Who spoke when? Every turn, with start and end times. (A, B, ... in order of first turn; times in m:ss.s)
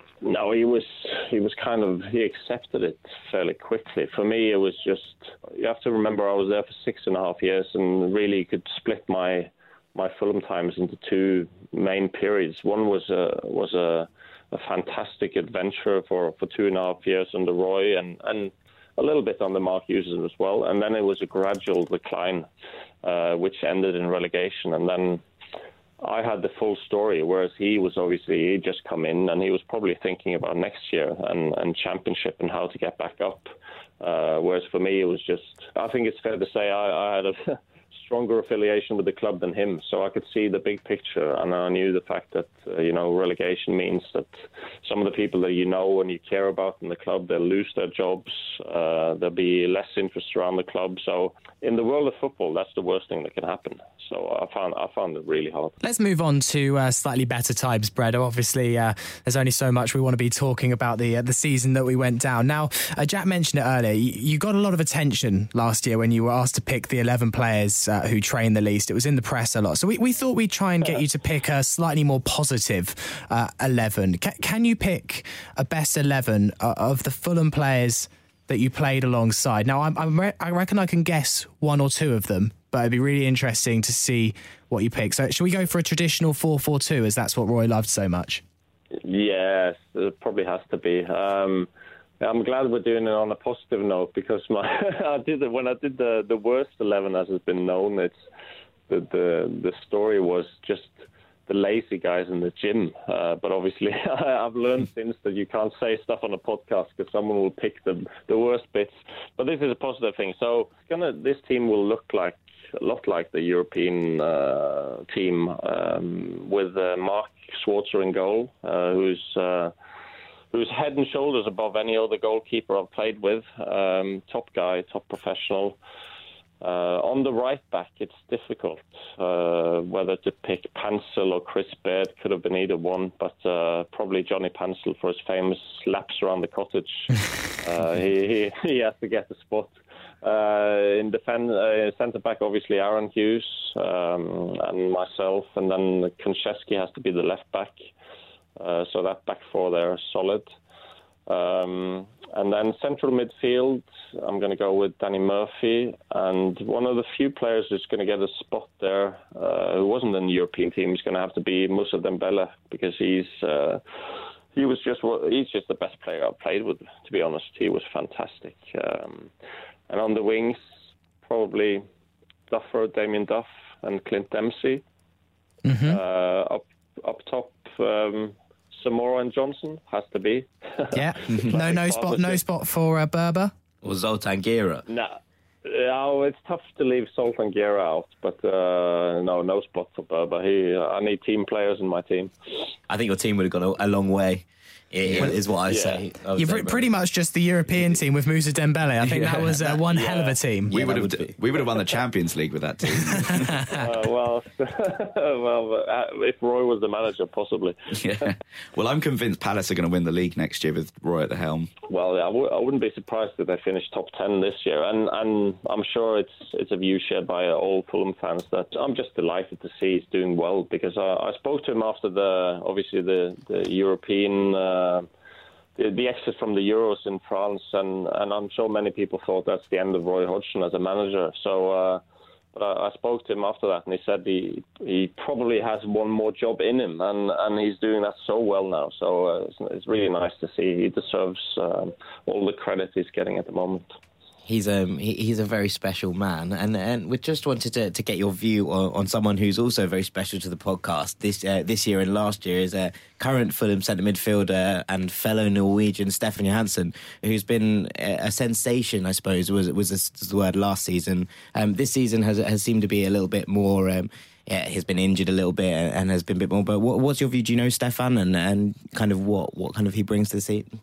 0:00.2-0:22.5 A
0:23.0-0:25.2 A
0:26.0-0:55.8 A
0:55.8-1:28.4 B
1:28.9-1:31.7 A
1:32.2-1:38.1 A
1:38.9-1:40.9 A
1:41.5-1:59.7 A
2:00.5-2:05.8 A
2:06.6-2:27.9 A
2:28.6-2:30.5 A
2:31.3-2:43.8 A
2:44.6-2:49.3 A
2:49.9-2:50.6 A
2:51.2-2:51.8 A
2:52.5-2:54.8 A
2:55.6-2:56.0 B
2:55.9-3:02.4 A
3:00.9-3:03.5 B
3:03.8-3:04.8 C
3:04.9-3:12.3 A
3:12.9-3:16.8 C
3:15.7-3:16.0 A
3:16.4-3:20.8 B
3:19.9-3:20.4 A
3:20.7-3:21.4 C
3:20.7-3:23.7 D
3:23.7-3:28.3 A
3:28.0-3:31.7 D
3:31.9-3:45.1 A
3:45.8-3:52.0 A
3:52.5-4:04.0 A
4:04.5-4:30.7 C